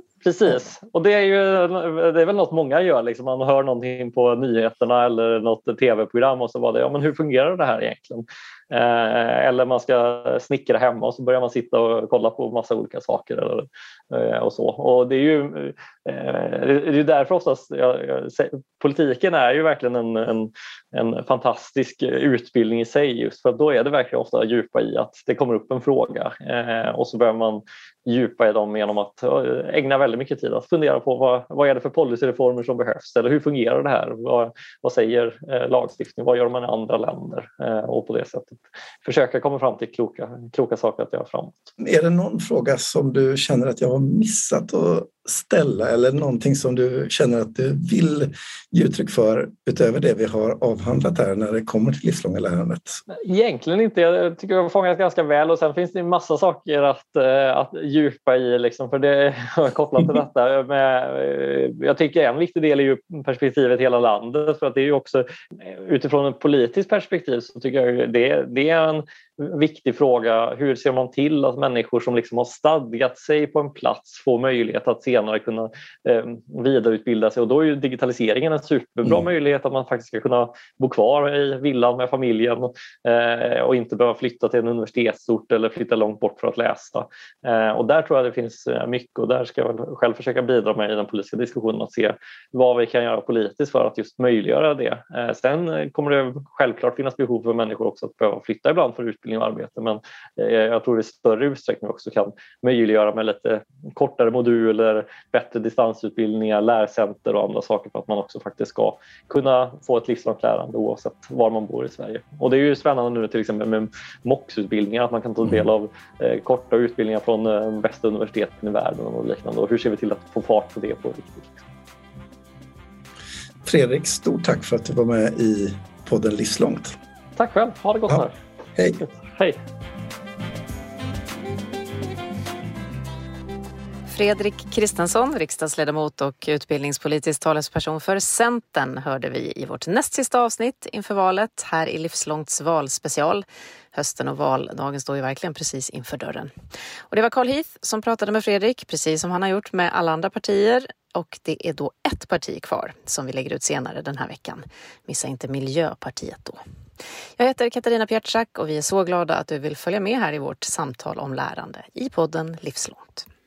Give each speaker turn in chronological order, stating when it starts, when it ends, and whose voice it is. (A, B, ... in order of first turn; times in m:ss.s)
0:00.2-0:41.7 A
0:41.8-0:53.0 B
0:53.1-2:01.6 A
2:03.6-2:07.0 B
2:07.4-2:08.3 A
2:08.1-2:09.0 B
2:09.3-2:09.6 A
2:14.1-2:26.5 C
2:27.1-2:36.6 C
2:37.4-2:43.2 C